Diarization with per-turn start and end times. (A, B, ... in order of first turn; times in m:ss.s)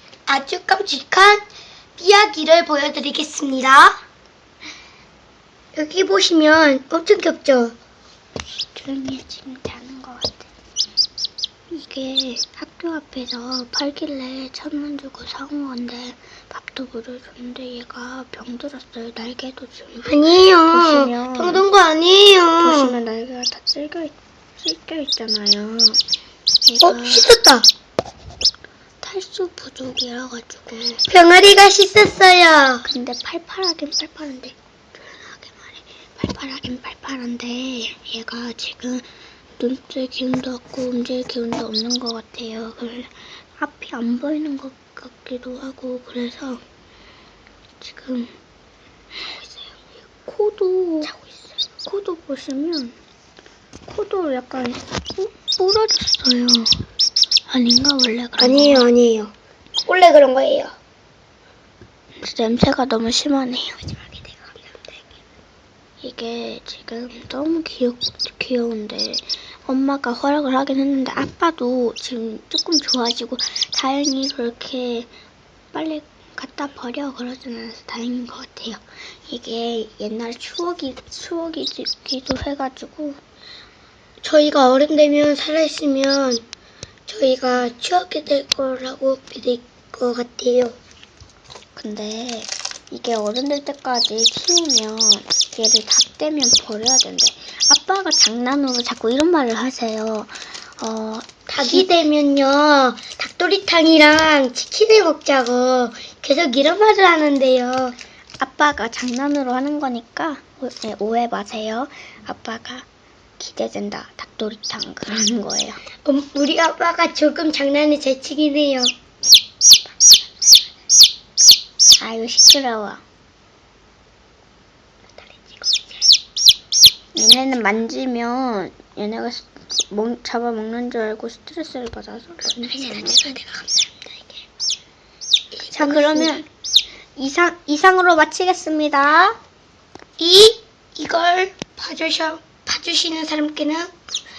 0:00.3-0:01.4 A
0:02.0-0:04.0 A
0:05.7-0:07.7 A
0:08.7-0:10.5 B
0:11.7-0:21.6 B
0:20.0-0:23.0 A
0:22.6-0:26.0 B
0:26.6-0:27.2 B
0:26.8-0:27.6 A
0:29.0-0:31.0 B
0:31.1-0:32.8 A
0:32.8-0:39.0 B
0:39.6-0:46.6 B
0:47.8-0:48.3 B
0:49.1-0:51.2 B
0:51.8-0:52.9 B
0:53.8-0:56.8 B
0:57.5-0:58.8 B
0:58.4-0:59.3 A
0:59.8-1:00.7 A
1:02.2-1:04.2 B
1:06.0-1:15.1 B
1:15.7-1:23.2 B
1:24.2-1:26.4 A
1:27.1-1:30.8 A
1:31.8-1:41.9 B
1:41.5-1:47.9 A
1:48.4-1:52.8 B
1:53.4-1:55.8 B
1:56.0-1:58.9 A
2:02.0-2:03.0 B
2:05.4-2:05.9 A
2:07.1-2:13.4 B
2:12.6-2:14.4 A
2:15.5-2:16.4 A
2:15.7-2:16.5 B
2:17.2-2:19.4 B
2:20.2-2:23.9 A